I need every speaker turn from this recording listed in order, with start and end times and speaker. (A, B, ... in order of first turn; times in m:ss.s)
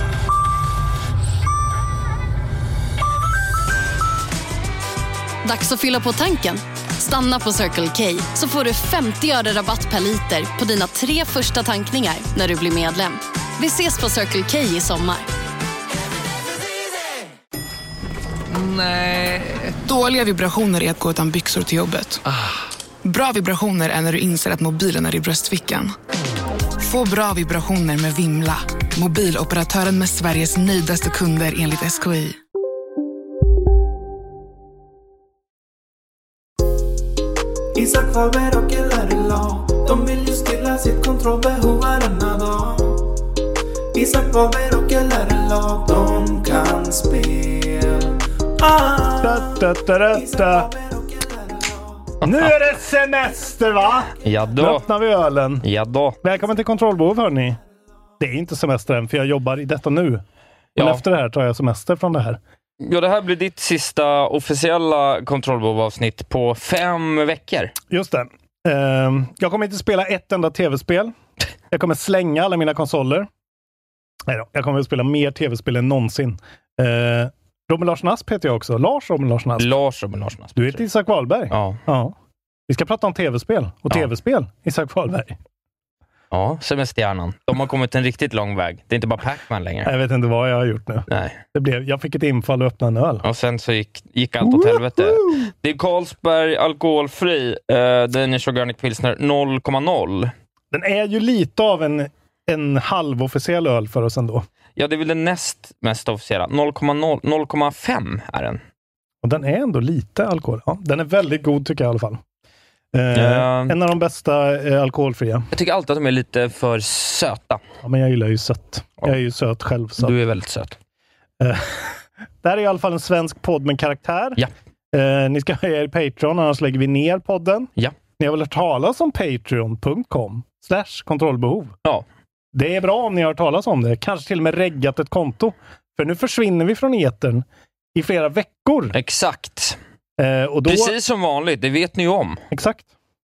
0:05.4-0:15.3 A
0:19.8-0:22.2 B
0:23.0-0:26.0 B
0:26.8-0:32.4 B
0:37.7-0:43.2 C
0:43.9-0:52.1 C
0:49.1-0:50.7 D
0:52.2-0:52.5 E
0:52.2-0:55.6 D
0:54.2-0:54.9 E
0:55.6-0:56.2 E
0:56.2-0:57.6 D
0:58.2-1:00.2 D
1:00.8-1:01.0 E
1:00.8-1:02.4 D
1:02.8-1:07.7 E
1:07.9-1:11.1 D
1:11.7-1:13.3 D
1:14.3-1:19.7 D
1:19.6-1:20.8 E
1:20.6-1:22.2 D
1:21.5-1:21.8 E
1:22.7-1:25.4 D
1:26.3-1:29.9 E
1:29.8-1:33.2 D
1:31.1-1:31.4 E
1:33.2-1:40.3 E
1:34.4-1:35.5 D
1:40.7-1:44.5 D
1:44.8-1:48.6 E
1:49.2-1:52.2 D
1:52.9-1:55.5 D
1:53.1-1:53.8 E
1:55.5-1:57.6 E
1:57.8-2:00.1 D
2:00.0-2:00.8 E
2:01.4-2:04.4 D
2:04.9-2:11.8 D
2:12.5-2:19.0 D
2:18.9-2:19.8 E
2:20.2-2:21.0 D
2:20.7-2:22.4 E
2:22.5-2:22.9 D